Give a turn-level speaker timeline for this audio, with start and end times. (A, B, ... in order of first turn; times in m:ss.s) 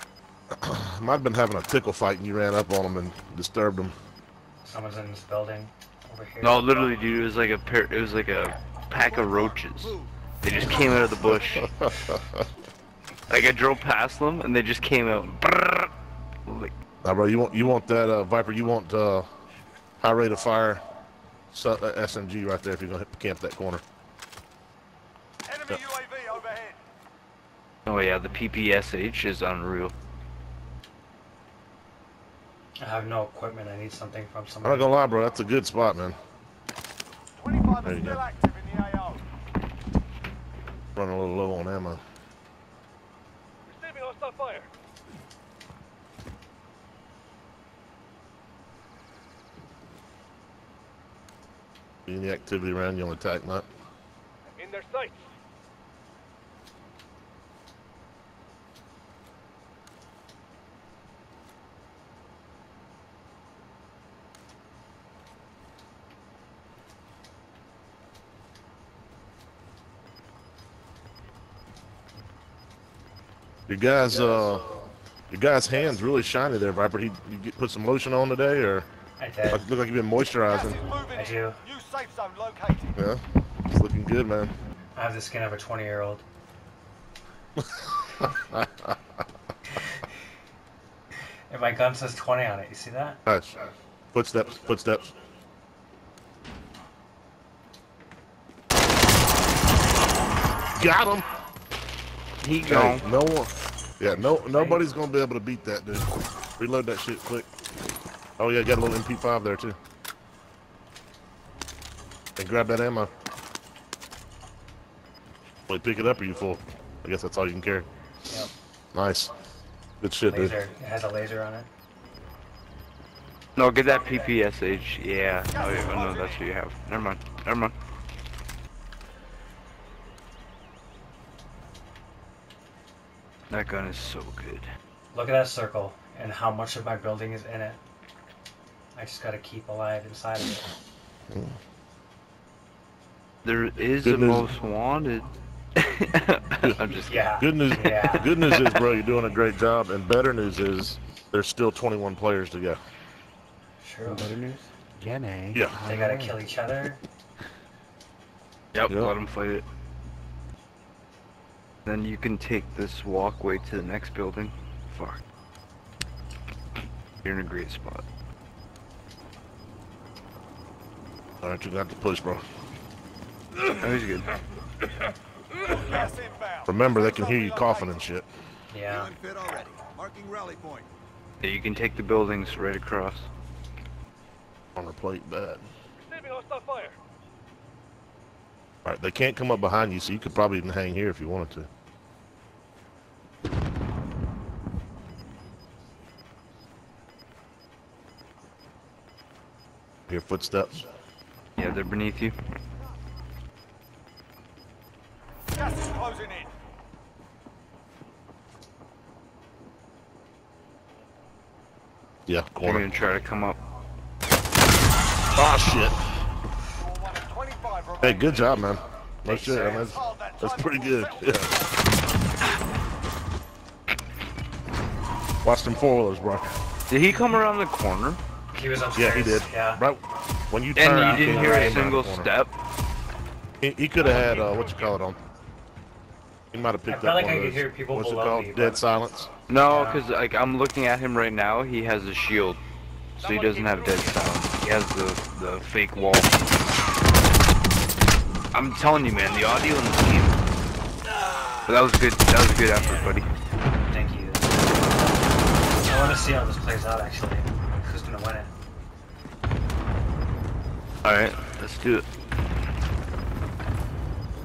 0:00.5-0:04.0 A
0:04.6-0:07.0 B
0:06.4-0:11.7 C
0:08.9-0:10.1 D
0:10.6-0:11.7 E
0:11.2-0:12.4 A
0:13.3-0:15.9 C
0:16.4-0:16.7 C
0:17.0-0:19.3 A
0:20.0-0:20.8 A
0:21.5-0:23.8 A
0:25.4-0:26.8 E
0:27.8-0:29.9 C
0:32.8-0:34.9 B
0:34.6-0:36.2 A
0:37.3-0:39.2 E
0:37.8-0:38.2 A
0:41.0-0:42.0 A
0:43.7-0:44.7 F
0:52.1-0:53.6 A
0:54.5-0:55.3 F
1:13.7-1:14.7 A
1:15.3-1:18.9 A
1:19.2-1:19.6 B
1:19.5-1:20.8 A
1:20.4-1:22.9 E
1:21.1-1:21.6 B
1:23.0-1:24.5 A
1:24.9-1:26.2 B
1:27.6-1:29.0 A
1:31.5-1:33.2 B
1:33.2-1:33.6 A
1:34.1-1:35.1 A
1:40.7-1:41.2 A
1:42.4-1:43.0 C
1:42.6-1:46.1 A
1:46.6-1:47.5 A
1:48.4-1:49.8 A
1:52.4-1:53.1 A
1:55.7-1:57.9 A
1:58.9-1:59.3 A
2:00.0-2:00.6 A
2:00.3-2:01.7 B
2:03.6-2:07.7 C
2:05.5-2:06.4 E
2:13.5-2:14.7 C
2:15.1-2:17.8 B
2:18.9-2:20.7 B
2:21.3-2:21.6 A
2:23.4-2:27.3 C
2:24.0-2:24.5 A
2:27.1-2:28.4 B
2:27.4-2:32.8 A
2:28.5-2:28.8 C
2:33.8-2:34.3 B
2:34.0-2:36.4 G
2:35.5-2:35.8 A
2:35.8-2:37.0 B
2:38.7-2:39.6 C
2:38.9-2:39.1 A
2:41.9-2:45.2 C
2:47.2-2:48.0 C
2:51.4-2:52.4 A
2:53.6-2:54.3 C
2:55.6-2:58.0 E
2:56.6-2:58.3 A
2:58.7-2:59.1 B
2:58.8-3:00.9 D
3:01.4-3:03.3 C
3:04.7-3:05.6 A
3:06.0-3:07.0 F
3:08.8-3:11.7 A
3:20.1-3:20.8 A
3:21.6-3:22.4 C
3:25.5-3:26.5 E
3:32.3-3:32.9 A
3:32.6-3:33.6 C
3:35.3-3:36.0 A
3:36.7-3:38.8 E
3:38.0-3:41.5 A
3:39.3-3:39.9 B
3:39.4-3:41.8 E
3:45.4-3:46.5 A
3:46.9-3:48.2 C
3:48.5-3:49.8 B
3:48.9-3:52.3 A
3:50.8-3:52.5 C
3:51.0-3:51.8 B
3:53.6-3:55.2 A
3:56.5-3:59.3 A
3:56.9-3:58.8 B
3:59.5-4:02.6 C
3:59.6-4:00.0 B
4:03.2-4:04.3 F
4:03.2-4:06.3 C
4:08.5-4:10.4 C
4:11.6-4:13.3 C
4:12.8-4:13.1 F
4:13.9-4:14.6 B
4:15.8-4:18.5 B
4:21.0-4:22.0 C